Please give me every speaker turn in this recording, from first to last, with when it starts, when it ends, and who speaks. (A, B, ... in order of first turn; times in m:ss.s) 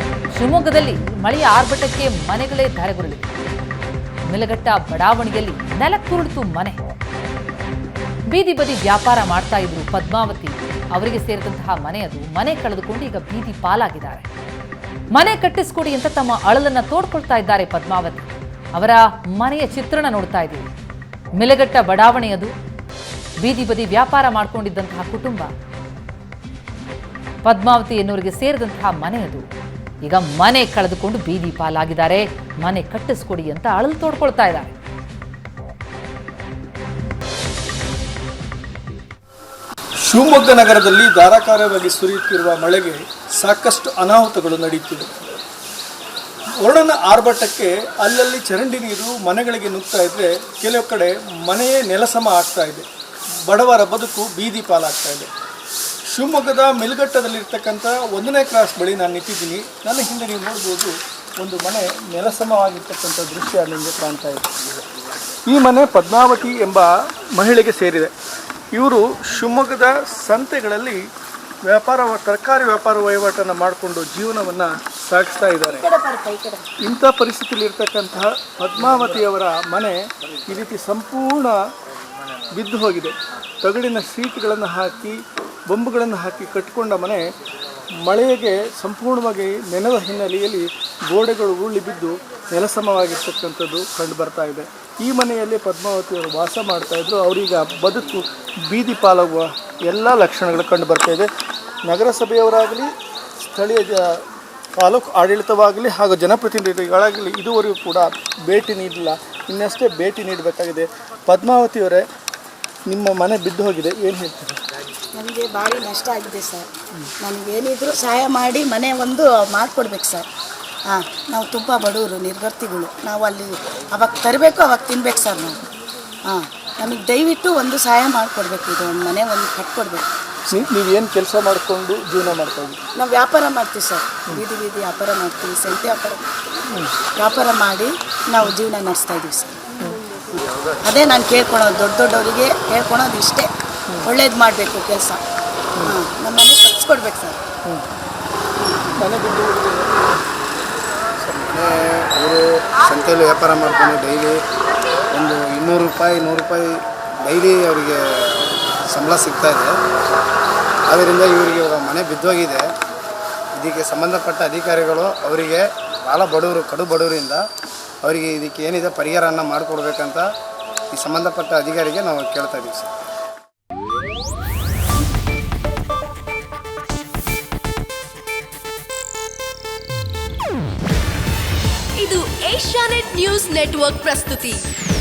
0:00.3-0:03.3 A
0:04.2-0:06.8 A
0:08.3-0:14.3 A
0:15.1-0:20.7 A
0:21.4-0:22.5 A
0:23.4-0:25.5 A
0:27.4-0:29.4 A
0:30.0-0:34.7 A
0:40.0-0:45.4 B
0:46.6-0:52.9 B
0:53.4-0:55.3 B
0:56.1-1:04.5 B
1:05.5-1:08.1 B
1:08.7-1:11.1 B
1:11.6-1:15.9 B
1:15.6-1:16.7 C
1:16.8-1:21.6 B
1:22.5-1:25.2 B
1:25.7-1:27.2 B
1:28.0-1:41.3 B
1:41.9-1:42.9 B
1:43.4-1:44.0 B
1:44.8-1:52.0 B
1:52.9-1:54.6 B
1:55.1-1:56.7 C
1:57.2-2:00.3 C
2:00.9-2:05.6 C
2:06.2-2:10.0 C
2:10.5-2:12.8 B
2:12.9-2:16.3 C
2:17.1-2:19.6 C
2:20.3-2:23.5 C
2:24.0-2:25.2 C
2:25.8-2:27.4 C
2:28.6-2:29.0 C
2:29.0-2:30.2 B
2:31.2-2:34.4 D
2:35.1-2:39.7 D
2:40.9-2:42.7 D
2:43.6-2:47.4 D
2:48.0-2:50.3 D
2:50.9-2:52.9 D
3:02.0-3:04.6 E